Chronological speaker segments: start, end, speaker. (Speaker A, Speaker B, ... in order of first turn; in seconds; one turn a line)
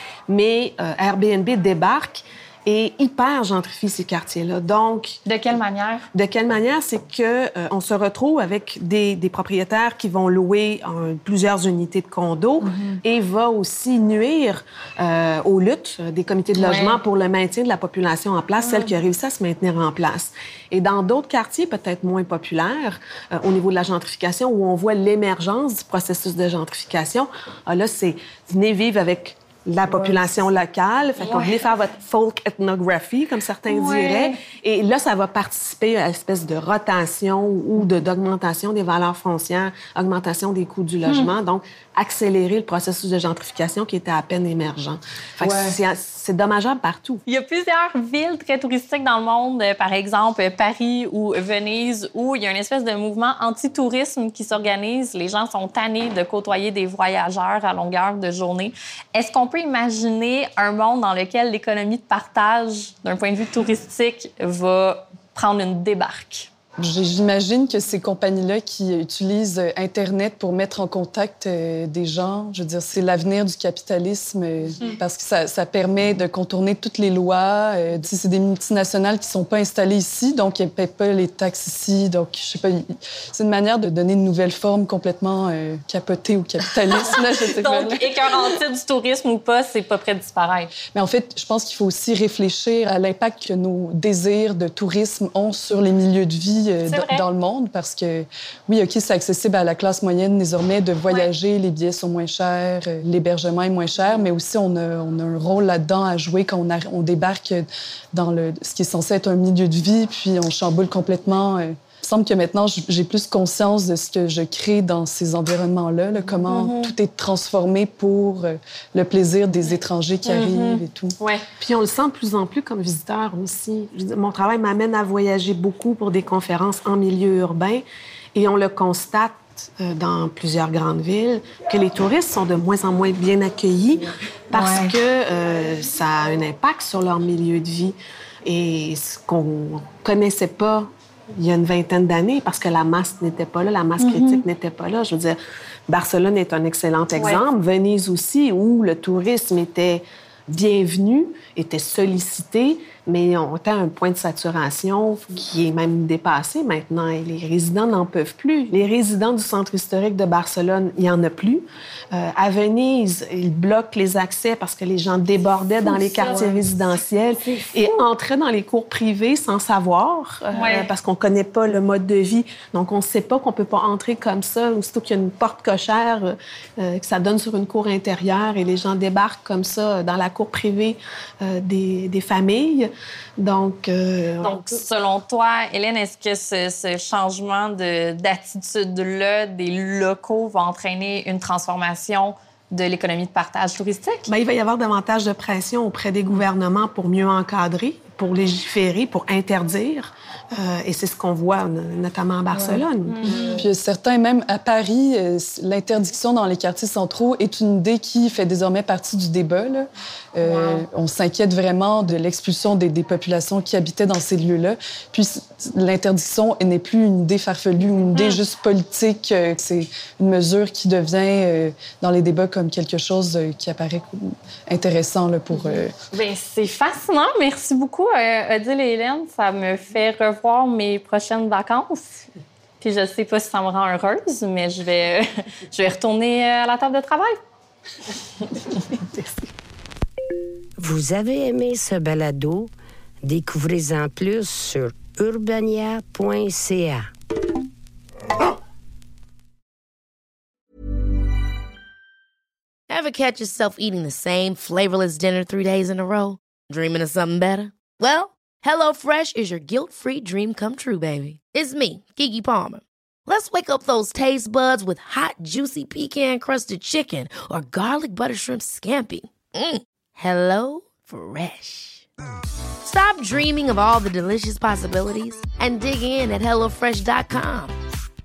Speaker A: 0.3-5.2
Speaker B: 5.2-6.0
Speaker A: 6.1-47.2
Speaker B: 12.6-13.0
Speaker B: 16.6-17.0
Speaker B: 18.6-18.9
Speaker B: 31.2-31.7
Speaker B: 33.6-34.4
Speaker B: 41.0-41.3
Speaker C: 45.4-45.8
Speaker B: 47.2-66.5
Speaker C: 66.8-88.1
Speaker B: 86.9-90.7
Speaker C: 90.9-121.2
Speaker B: 96.9-97.2
Speaker B: 116.4-116.9
Speaker B: 119.6-121.4
Speaker A: 121.6-127.8
Speaker A: 128.3-184.8
Speaker B: 134.5-134.9
Speaker B: 144.0-144.4
Speaker B: 147.1-147.4
Speaker B: 165.8-168.1
Speaker B: 170.5-170.9
Speaker B: 184.4-194.3
Speaker A: 194.3-203.6
Speaker B: 202.5-203.7
Speaker C: 203.5-225.9
Speaker B: 210.4-210.8
Speaker B: 218.1-218.4
Speaker B: 225.5-232.2
Speaker B: 232.8-237.3
Speaker B: 238.5-238.8
Speaker D: 240.8-242.7
Speaker D: 243.2-247.1
Speaker E: 252.9-272.1
Speaker E: 272.8-277.8